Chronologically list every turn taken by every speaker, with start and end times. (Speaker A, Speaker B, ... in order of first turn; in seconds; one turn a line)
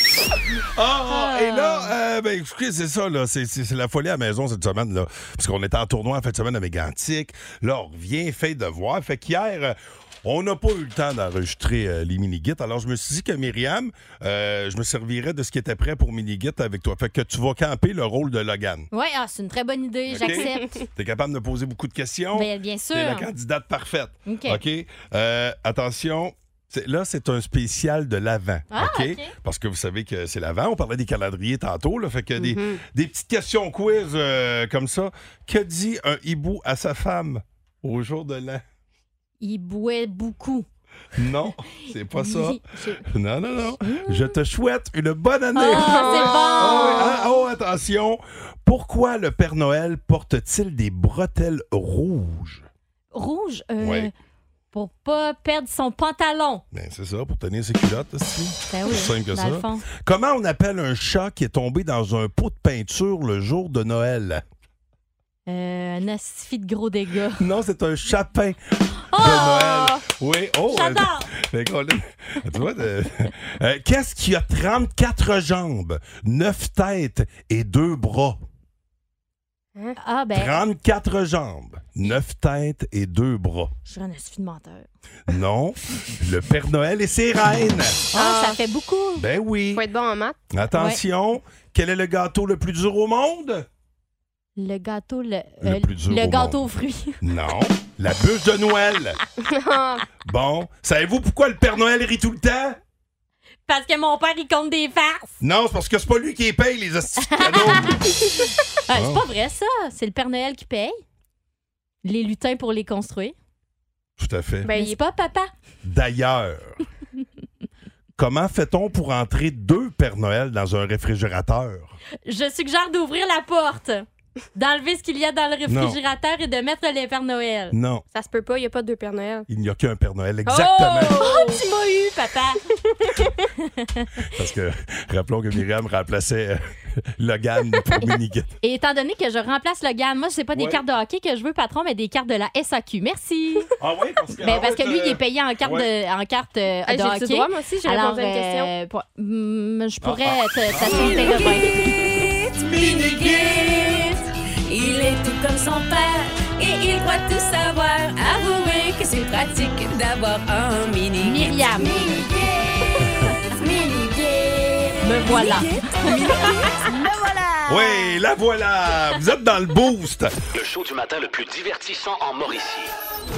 Speaker A: 0.8-18.9
Speaker B: 1.1-1.9
Speaker B: 18.9-20.7
Speaker A: 20.1-38.6
Speaker B: 22.3-23.3
Speaker B: 24.3-24.6
Speaker B: 28.7-29.3
Speaker C: 32.4-32.8
Speaker B: 39.4-40.7
Speaker A: 41.2-52.7
Speaker B: 42.1-43.0
Speaker B: 43.8-44.3
Speaker B: 45.5-47.2
Speaker C: 45.7-47.0
Speaker B: 53.1-54.1
Speaker A: 53.8-54.1
Speaker B: 54.7-56.6
Speaker A: 56.7-64.4
Speaker B: 58.7-59.8
Speaker B: 65.5-67.5
Speaker A: 67.4-68.6
Speaker B: 69.1-70.0
Speaker A: 69.1-78.4
Speaker B: 70.7-71.3
Speaker B: 80.0-80.6
Speaker A: 80.3-83.7
Speaker B: 83.9-84.9
Speaker A: 85.3-88.0
Speaker B: 88.1-89.3
Speaker C: 88.1-88.6
Speaker A: 89.2-89.8
Speaker C: 89.7-90.4
Speaker A: 90.5-93.7
Speaker B: 90.7-91.0
Speaker B: 94.6-97.2
Speaker A: 95.6-96.7
Speaker A: 97.2-99.2
Speaker C: 99.4-100.1
Speaker A: 100.2-102.8
Speaker B: 103.7-105.4
Speaker A: 105.4-108.0
Speaker B: 107.3-108.0
Speaker B: 108.9-111.0
Speaker A: 108.9-109.2
Speaker B: 112.0-113.3
Speaker A: 114.2-114.7
Speaker C: 114.7-115.0
Speaker B: 114.7-115.5
Speaker A: 115.8-116.8
Speaker A: 118.2-122.0
Speaker B: 122.3-127.8
Speaker A: 125.7-126.0
Speaker A: 127.7-128.0
Speaker C: 128.1-129.5
Speaker A: 129.5-131.3
Speaker B: 130.5-132.6
Speaker C: 131.2-131.6
Speaker B: 133.1-134.1
Speaker A: 134.3-138.6
Speaker B: 138.0-143.7
Speaker A: 140.5-140.8
Speaker A: 143.8-145.9
Speaker B: 144.4-152.0
Speaker C: 146.9-148.7
Speaker A: 150.0-151.2
Speaker D: 151.0-167.9
Speaker A: 152.8-153.6
Speaker B: 161.2-162.3
Speaker B: 165.0-166.9
Speaker A: 167.7-170.3
Speaker E: 170.5-172.9